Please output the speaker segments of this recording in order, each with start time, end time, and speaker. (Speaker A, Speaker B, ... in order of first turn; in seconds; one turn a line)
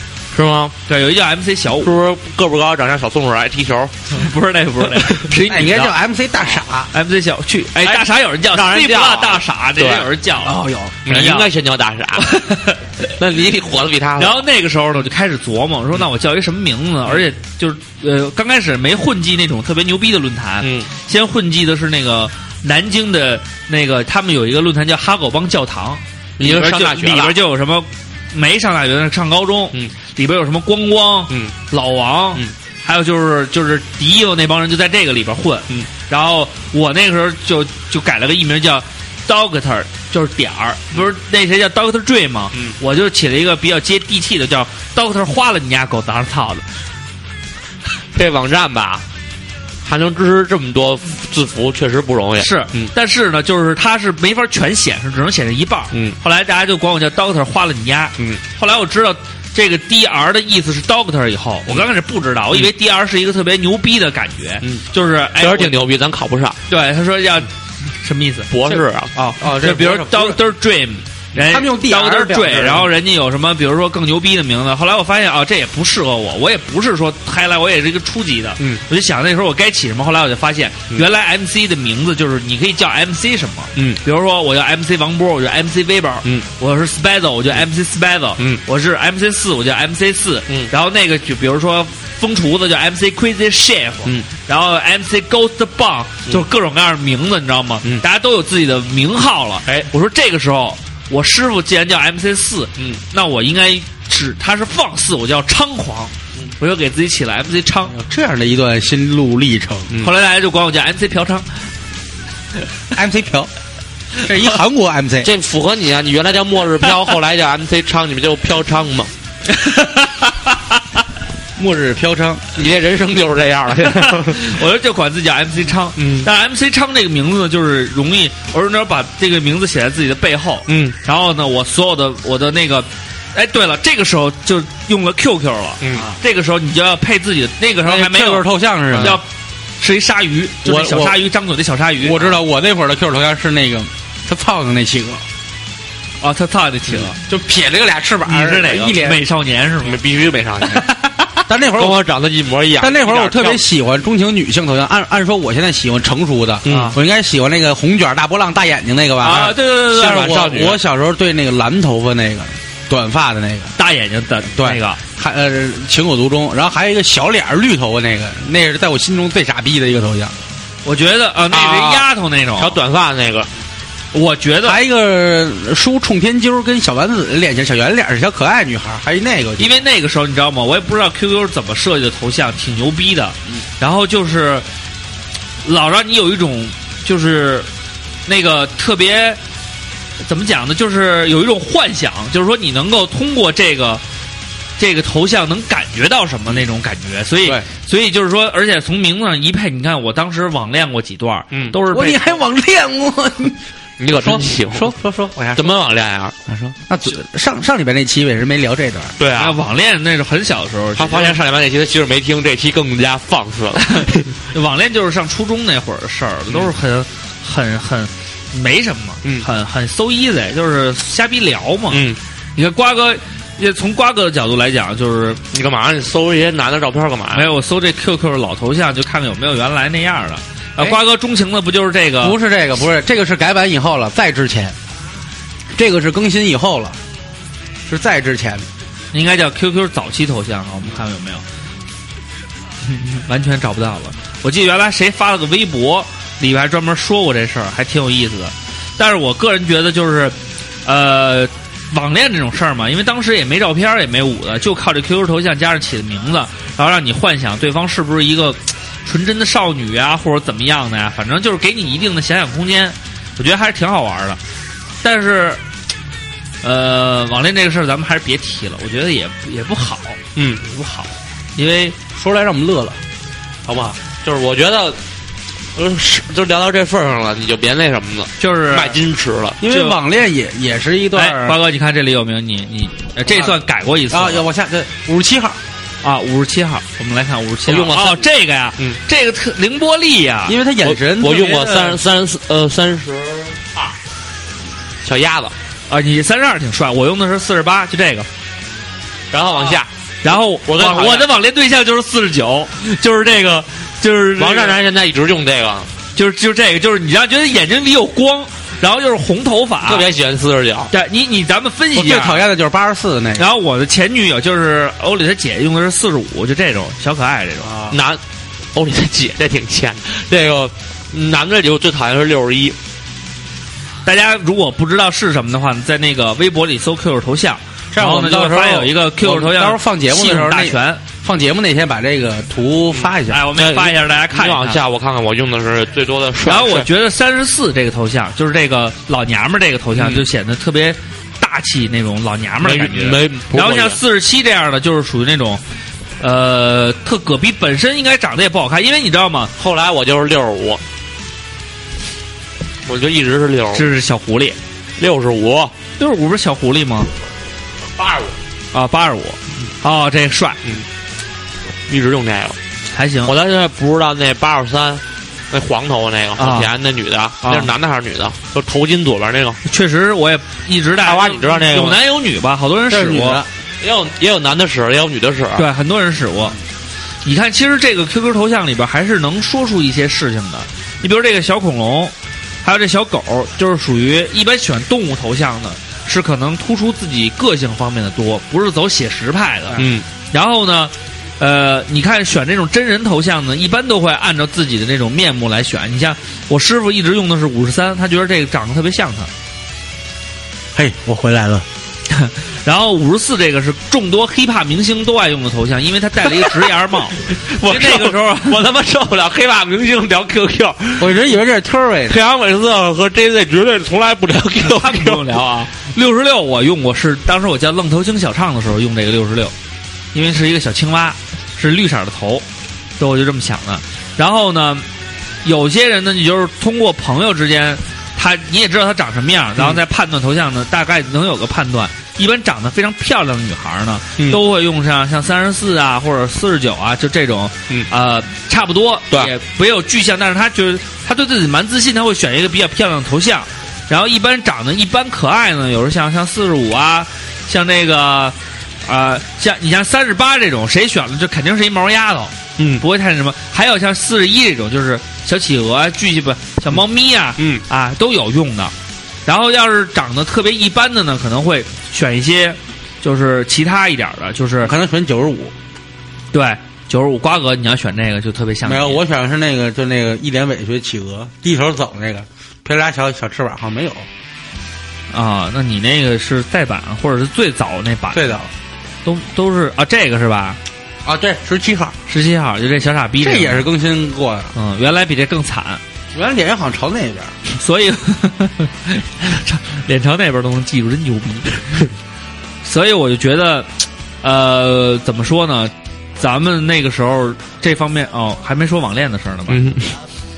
Speaker A: 0.3-0.7
Speaker B: 0.9-1.9
Speaker A: 1.8-4.2
Speaker B: 4.1-5.9
Speaker C: 5.4-6.9
Speaker B: 6.9-11.5
Speaker A: 7.8-10.1
Speaker C: 10.4-10.9
Speaker A: 11.0-12.3
Speaker B: 12.2-13.1
Speaker A: 13.2-14.4
Speaker B: 14.2-46.6
Speaker A: 20.6-20.9
Speaker A: 26.4-27.4
Speaker A: 48.1-49.0
Speaker A: 49.8-52.9
Speaker B: 52.4-65.8
Speaker A: 55.9-56.2
Speaker A: 65.4-66.6
Speaker B: 66.7-68.5
Speaker A: 68.5-69.1
Speaker C: 68.7-70.4
Speaker B: 69.2-107.9
Speaker C: 71.4-72.9
Speaker A: 83.8-84.0
Speaker C: 107.9-109.9
Speaker B: 110.0-111.6
Speaker C: 112.9-113.5
Speaker C: 114.2-115.3
Speaker A: 115.2-119.1
Speaker B: 119.5-120.6
Speaker C: 121.5-122.5
Speaker A: 122.5-124.6
Speaker B: 123.8-139.2
Speaker A: 126.0-126.3
Speaker A: 130.7-130.9
Speaker A: 135.8-136.1
Speaker C: 137.8-139.2
Speaker A: 138.9-139.2
Speaker B: 139.8-142.4
Speaker C: 140.6-141.2
Speaker C: 142.0-145.2
Speaker B: 146.2-147.2
Speaker C: 147.2-149.2
Speaker B: 148.2-150.0
Speaker A: 149.8-150.8
Speaker B: 150.7-151.2
Speaker C: 151.5-152.0
Speaker A: 151.7-153.6
Speaker C: 152.8-163.7
Speaker A: 156.6-156.9
Speaker B: 156.7-157.0
Speaker B: 159.2-160.4
Speaker A: 159.9-160.8
Speaker B: 163.8-165.0
Speaker C: 164.5-170.3
Speaker B: 170.8-172.8
Speaker A: 171.5-173.5
Speaker B: 174.1-174.8
Speaker C: 174.6-179.8
Speaker B: 179.6-184.7
Speaker B: 185.6-187.7
Speaker B: 188.2-189.4
Speaker B: 190.2-194.0
Speaker B: 194.8-202.3
Speaker C: 201.9-205.8
Speaker A: 204.0-204.9
Speaker A: 205.5-206.6
Speaker C: 206.7-209.1
Speaker A: 209.2-209.6
Speaker B: 209.3-211.4
Speaker A: 210.9-214.3
Speaker B: 213.9-222.0
Speaker A: 221.9-222.2
Speaker B: 222.6-225.4
Speaker A: 225.5-227.5
Speaker B: 227.3-232.4
Speaker C: 232.2-234.8
Speaker C: 235.7-237.0
Speaker C: 237.9-238.7
Speaker B: 239.1-241.4
Speaker B: 242.8-264.4
Speaker B: 265.0-265.6
Speaker B: 266.6-271.9
Speaker A: 270.4-270.6
Speaker C: 272.1-273.0
Speaker C: 273.6-274.0
Speaker A: 274.2-275.0
Speaker A: 275.8-279.6
Speaker B: 278.4-279.0
Speaker C: 279.6-281.6
Speaker B: 279.7-280.0
Speaker B: 281.1-284.4
Speaker C: 284.1-285.6
Speaker B: 286.0-290.6
Speaker A: 287.6-289.0
Speaker C: 290.4-291.9
Speaker A: 290.8-293.9
Speaker B: 291.5-291.9
Speaker A: 295.0-295.5
Speaker B: 295.9-298.3
Speaker A: 299.3-299.9
Speaker B: 300.2-304.8
Speaker A: 300.6-301.3
Speaker A: 304.4-305.9
Speaker B: 306.1-310.1
Speaker A: 309.8-310.9
Speaker B: 310.9-312.5
Speaker C: 311.9-313.5
Speaker B: 313.4-317.7
Speaker C: 317.6-317.9
Speaker A: 317.9-318.2
Speaker A: 318.7-322.8
Speaker B: 324.0-331.0
Speaker C: 327.9-333.4
Speaker B: 333.2-334.8
Speaker A: 333.5-336.9
Speaker B: 336.4-345.6
Speaker A: 339.9-340.2
Speaker A: 342.6-344.0
Speaker B: 346.2-349.5
Speaker A: 349.6-350.8
Speaker A: 352.8-353.9
Speaker B: 353.7-354.6
Speaker A: 355.0-355.7
Speaker B: 356.0-357.1
Speaker A: 358.0-358.4
Speaker B: 358.7-360.6
Speaker A: 361.9-362.6
Speaker B: 362.9-363.3
Speaker A: 363.2-369.6
Speaker B: 366.4-366.7
Speaker B: 367.4-367.7
Speaker B: 369.6-373.4
Speaker A: 371.0-372.0
Speaker C: 372.9-373.5
Speaker A: 373.8-375.7
Speaker B: 375.6-376.6
Speaker B: 377.2-399.3
Speaker A: 389.8-390.1
Speaker C: 400.7-401.6
Speaker B: 402.1-408.6
Speaker A: 407.2-411.2
Speaker C: 411.0-412.2
Speaker A: 412.1-415.3
Speaker B: 414.6-419.5
Speaker B: 420.1-422.4
Speaker B: 423.0-424.9
Speaker B: 425.4-458.7
Speaker A: 452.6-452.8
Speaker A: 457.4-457.6
Speaker B: 459.2-464.7
Speaker C: 464.6-465.5
Speaker B: 466.3-469.0
Speaker C: 468.6-474.1
Speaker B: 475.1-478.3
Speaker C: 478.1-478.5
Speaker B: 479.0-480.6
Speaker C: 481.0-481.9
Speaker B: 482.1-483.6
Speaker C: 483.2-484.5
Speaker B: 484.5-485.8
Speaker C: 486.1-487.4
Speaker B: 487.5-491.8
Speaker B: 492.6-499.6
Speaker A: 499.5-500.0